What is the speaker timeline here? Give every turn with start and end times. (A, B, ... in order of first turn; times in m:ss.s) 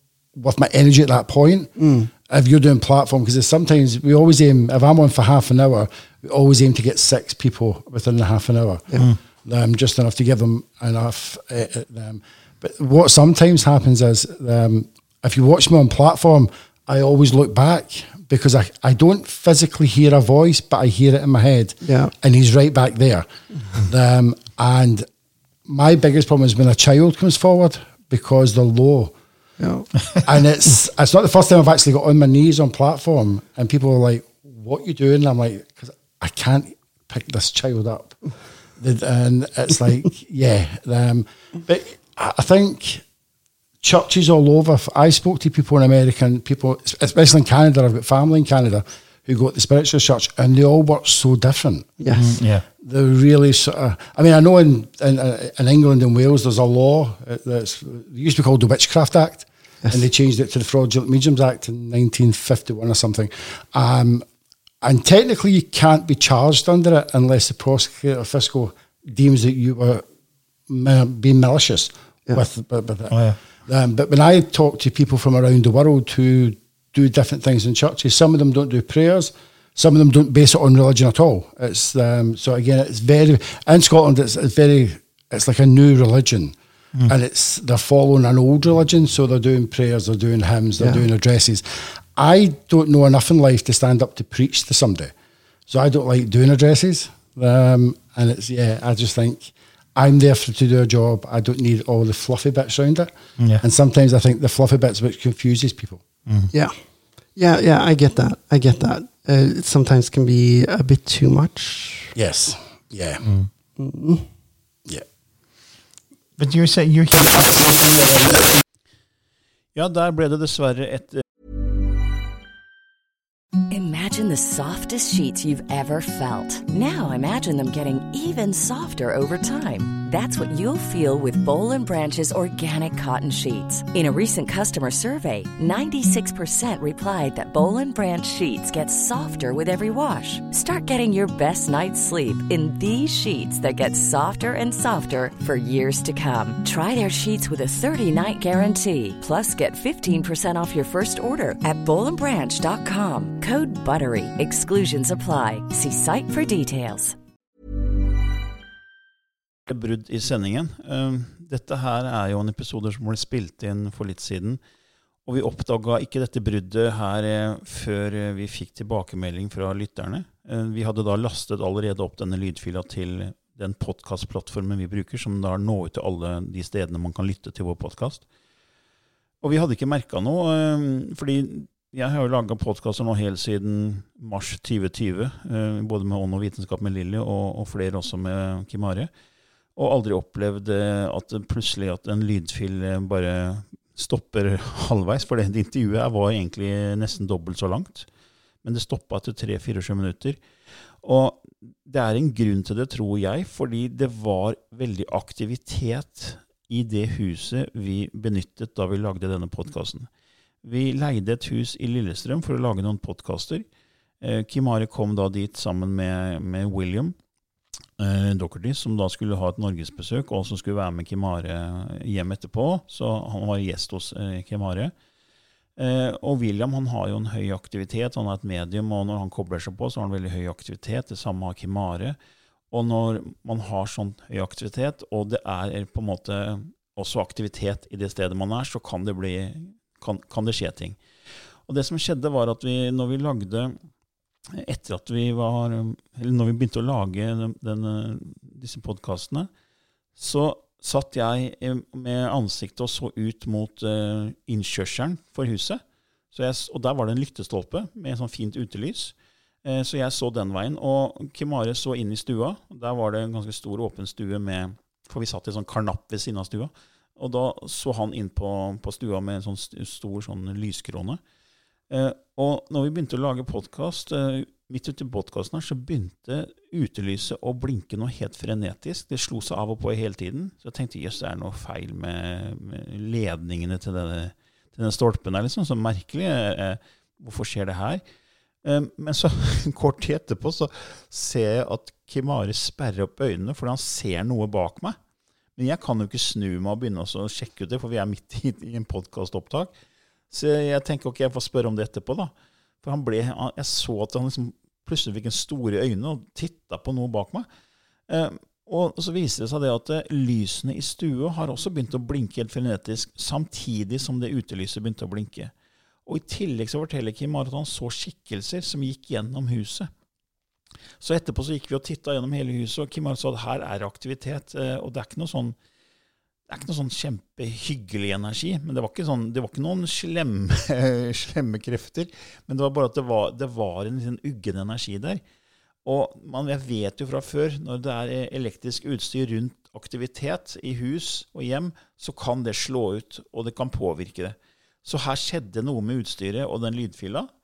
0:00.3-0:01.7 A
0:01.8-0:02.1 B
0:02.2-0:25.0 A
0:21.8-0:22.1 B
0:25.6-0:29.1 A
0:29.6-0:29.9 B
0:30.2-0:38.2 A
0:38.8-0:43.0 A
0:43.8-0:51.9 A
0:52.1-0:52.6 C
0:52.8-1:04.2 A
1:04.8-1:10.0 A
1:10.7-1:26.5 A
1:13.1-1:13.4 C
1:27.0-1:35.1 A
1:35.7-1:46.0 A
1:43.4-1:43.6 C
1:47.4-1:52.1 B
1:52.1-1:53.2 A
1:53.2-1:53.5 C
1:53.8-1:54.2 B
1:56.4-1:58.3 C
1:59.7-2:01.2 C
2:03.7-2:37.1 D
2:39.7-2:44.6 C
2:45.2-2:58.2 C
2:59.4-3:09.1 C
3:09.8-3:18.1 C
3:18.6-3:20.4 C
3:21.0-3:30.1 C
3:30.6-3:33.6 C
3:34.2-3:37.2 C
3:38.0-3:44.9 C
3:45.8-3:52.2 C
3:52.7-4:01.0 C
4:01.6-4:03.8 C
4:04.5-4:09.5 C
4:10.2-4:15.8 C
4:16.3-4:31.2 C
4:31.9-4:48.0 C
4:48.6-4:55.0 C
4:55.6-4:59.7 C
5:00.3-5:02.3 C
5:02.8-5:07.5 C
5:08.1-5:15.5 C
5:16.0-5:19.9 C
5:21.0-5:25.6 C
5:26.5-5:35.2 C
5:35.8-5:47.3 C